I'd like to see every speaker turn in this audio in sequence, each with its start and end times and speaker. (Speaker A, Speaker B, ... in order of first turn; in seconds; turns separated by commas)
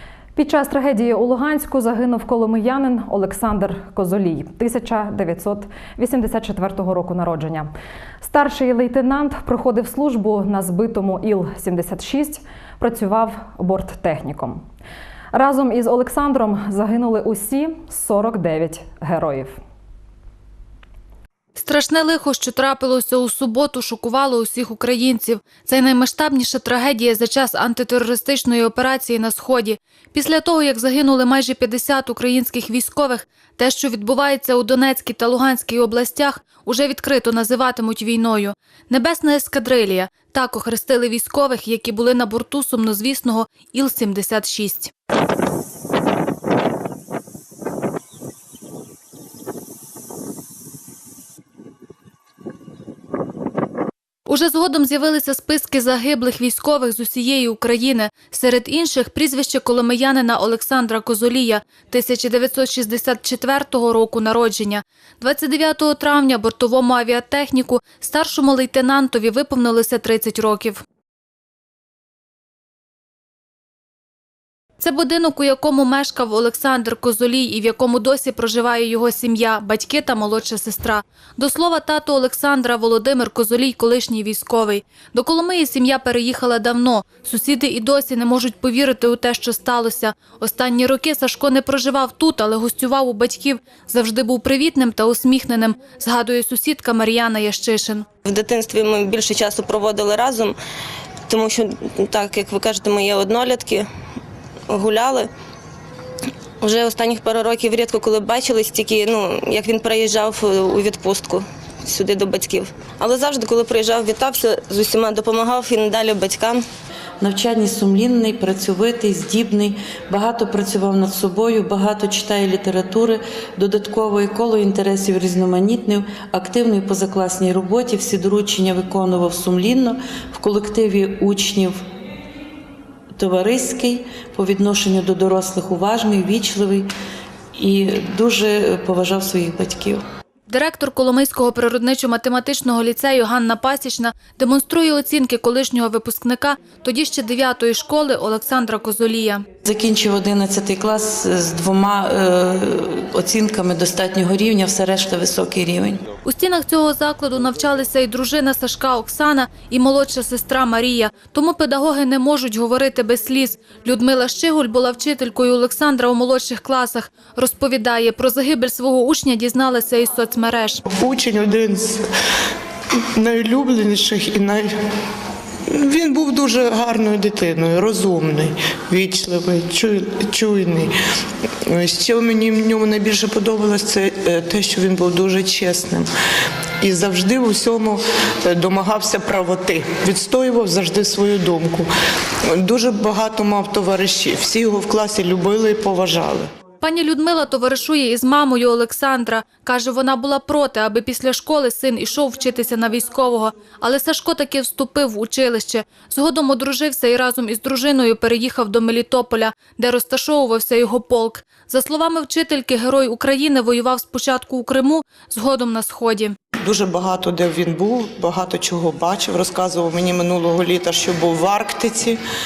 Speaker A: 0.3-7.7, Speaker A: 8.2-14.6, Speaker A: 15.3-19.6, Speaker B: 21.6-44.9, Speaker B: 54.3-70.8, Speaker B: 74.8-98.1, Speaker C: 98.2-100.6, Speaker C: 101.3-103.9, Speaker C: 104.7-105.3, Speaker C: 106.6-116.6, Speaker D: 117.2-131.8, Speaker D: 133.1-136.9, Speaker D: 137.5-140.0, Speaker B: 140.5-149.4, Speaker D: 149.6-156.1, Speaker B: 156.2-170.8, Speaker E: 170.9-172.0, Speaker E: 173.2-174.7, Speaker E: 175.7-180.9, Speaker E: 181.7-186.1, Speaker E: 186.8-191.9, Speaker E: 192.5-196.5, Speaker B: 196.8-216.3, Speaker E: 216.6-222.2